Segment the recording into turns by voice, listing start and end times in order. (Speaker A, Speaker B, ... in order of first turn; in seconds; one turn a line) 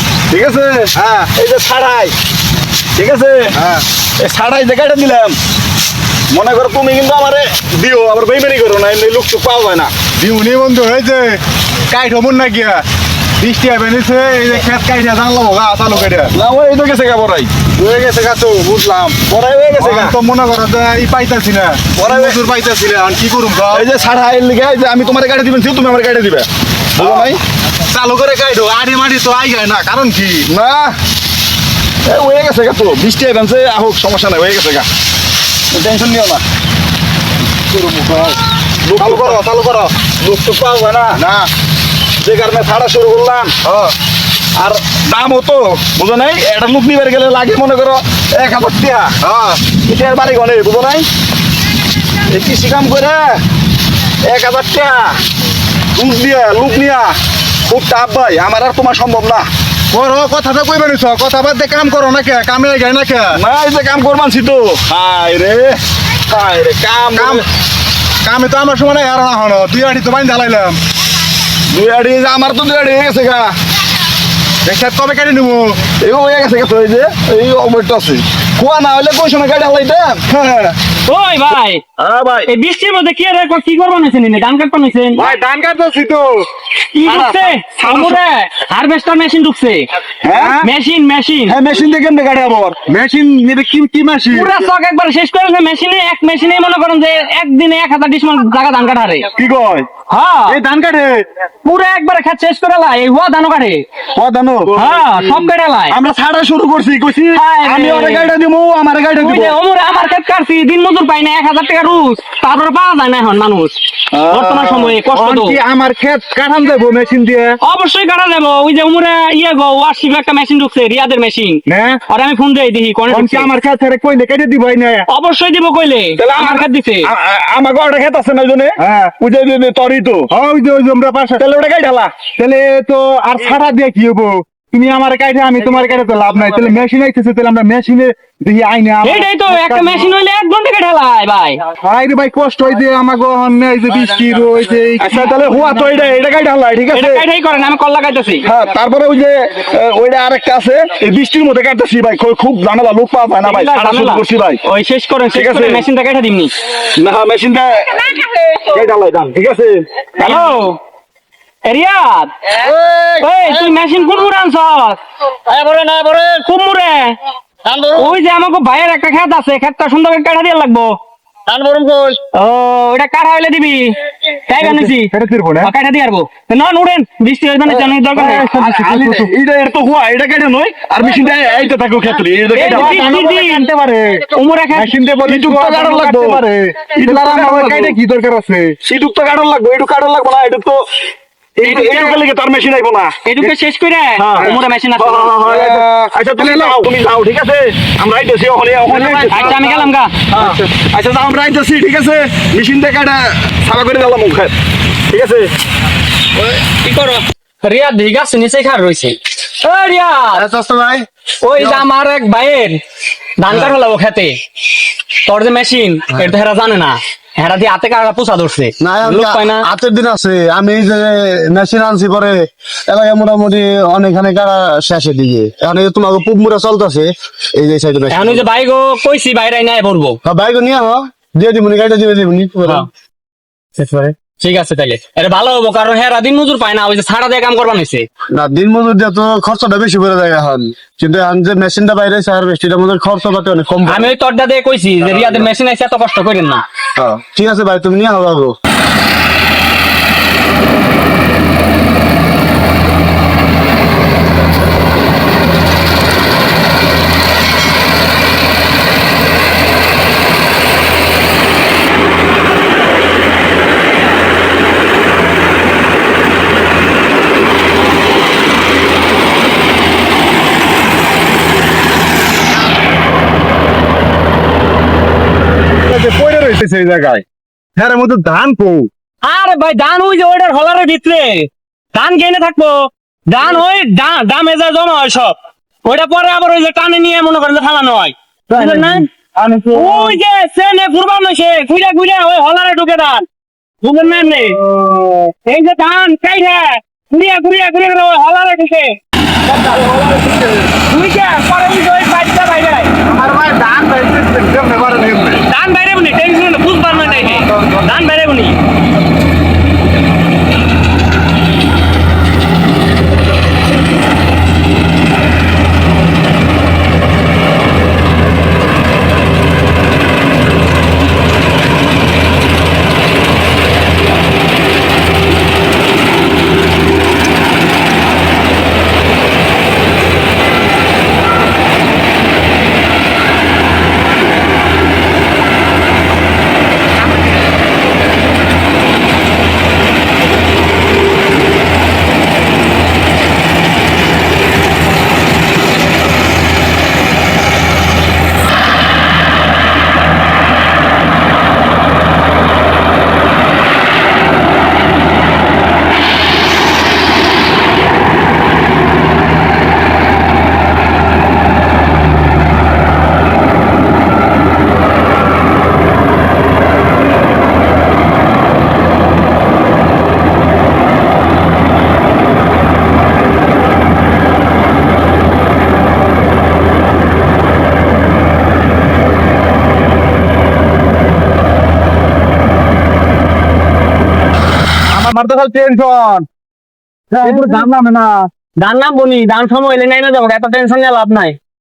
Speaker A: 0.3-2.1
Speaker B: 0.9-1.3
Speaker A: 3.0-3.6
Speaker B: 3.6-3.8
Speaker A: 4.2-5.4
Speaker A: 6.3-9.9
Speaker B: 10.2-12.8
Speaker B: 13.4-16.3
Speaker A: 16.3-17.5
Speaker B: 17.8-19.2
Speaker A: 19.3-20.2
Speaker B: 19.8-23.9
Speaker A: 22.0-22.5
Speaker A: 23.7-27.4
Speaker B: 27.0-27.2
Speaker B: 27.9-30.5
Speaker A: 30.5-31.0
Speaker A: 32.1-34.9
Speaker A: 35.7-36.4
Speaker B: 37.7-38.4
Speaker A: 38.9-39.5
Speaker B: 39.0-40.0
Speaker A: 40.2-41.2
Speaker B: 41.2-41.5
Speaker A: 42.2-43.6
Speaker B: 43.6-43.9
Speaker A: 44.6-49.2
Speaker B: 49.2-49.6
Speaker A: 49.8-51.1
Speaker A: 52.3-53.4
Speaker A: 54.2-55.2
Speaker A: 56.0-57.2
Speaker A: 57.7-59.5
Speaker B: 59.9-63.4
Speaker A: 63.3-67.5
Speaker B: 67.2-67.4
Speaker B: 68.2-70.8
Speaker A: 71.7-73.5
Speaker B: 74.7-75.8
Speaker A: 76.0-80.8
Speaker C: 81.1-81.8
Speaker A: 82.0-82.5
Speaker C: 82.5-85.2
Speaker B: 85.2-86.5
Speaker C: 86.9-89.9
Speaker B: 87.1-87.9
Speaker A: 90.2-90.6
Speaker B: 90.3-90.7
Speaker C: 90.6-91.6
Speaker A: 91.5-92.8
Speaker B: 92.9-94.5
Speaker C: 94.3-99.3
Speaker A: 99.4-99.9
Speaker C: 100.1-100.6
Speaker B: 100.5-101.2
Speaker C: 101.6-103.9
Speaker A: 104.2-105.2
Speaker C: 104.7-106.0
Speaker A: 105.9-109.5
Speaker C: 107.3-108.3
Speaker C: 109.2-115.6
Speaker A: 114.1-115.0
Speaker B: 114.3-117.6
Speaker C: 117.6-123.5
Speaker B: 121.7-122.0
Speaker B: 123.1-125.0
Speaker C: 125.1-127.1
Speaker A: 126.2-130.3
Speaker B: 128.8-129.2
Speaker B: 130.3-131.4
Speaker A: 131.4-132.2
Speaker B: 132.4-140.1
Speaker C: 139.0-141.6
Speaker B: 141.8-146.1
Speaker A: 145.0-147.2
Speaker C: 146.9-148.5
Speaker A: 148.4-154.6
Speaker C: 153.4-156.5
Speaker A: 155.3-155.8
Speaker A: 156.8-160.4
Speaker C: 160.2-160.8
Speaker C: 161.7-162.5
Speaker C: 163.2-165.0
Speaker C: 166.2-167.2
Speaker C: 167.9-171.0
Speaker D: 171.5-172.1
Speaker C: 172.3-178.5
Speaker B: 174.6-175.7
Speaker A: 177.7-183.2
Speaker B: 178.2-179.3
Speaker B: 182.5-188.8
Speaker C: 182.5-183.7
Speaker C: 184.2-185.0
Speaker A: 185.2-188.0
Speaker A: 188.8-190.9
Speaker A: 191.6-193.5
Speaker C: 191.6-192.2
Speaker C: 193.2-195.3
Speaker A: 194.2-204.6
Speaker B: 195.4-196.8
Speaker B: 198.9-200.6
Speaker C: 199.3-200.2
Speaker A: 205.1-205.5
Speaker C: 206.6-210.4
Speaker D: 210.3-211.9
Speaker C: 211.4-212.8
Speaker C: 213.4-214.4
Speaker C: 215.1-219.7
Speaker D: 218.8-228.5
Speaker C: 228.1-230.2
Speaker D: 230.2-232.9
Speaker C: 233.8-238.1
Speaker D: 238.3-244.1
Speaker C: 243.9-246.6
Speaker D: 245.0-245.5
Speaker D: 247.0-248.6
Speaker B: 275.8-277.2
Speaker B: 277.8-278.9
Speaker C: 279.2-289.1
Speaker B: 288.5-290.2
Speaker C: 289.7-293.3
Speaker C: 293.8-299.0
Speaker A: 299.7-300.7
Speaker C: 300.9-302.9
Speaker B: 303.1-305.4
Speaker C: 305.5-308.6
Speaker B: 306.9-307.9
Speaker B: 384.9-386.3
Speaker C: 387.1-387.7
Speaker B: 387.2-388.3
Speaker C: 388.6-391.4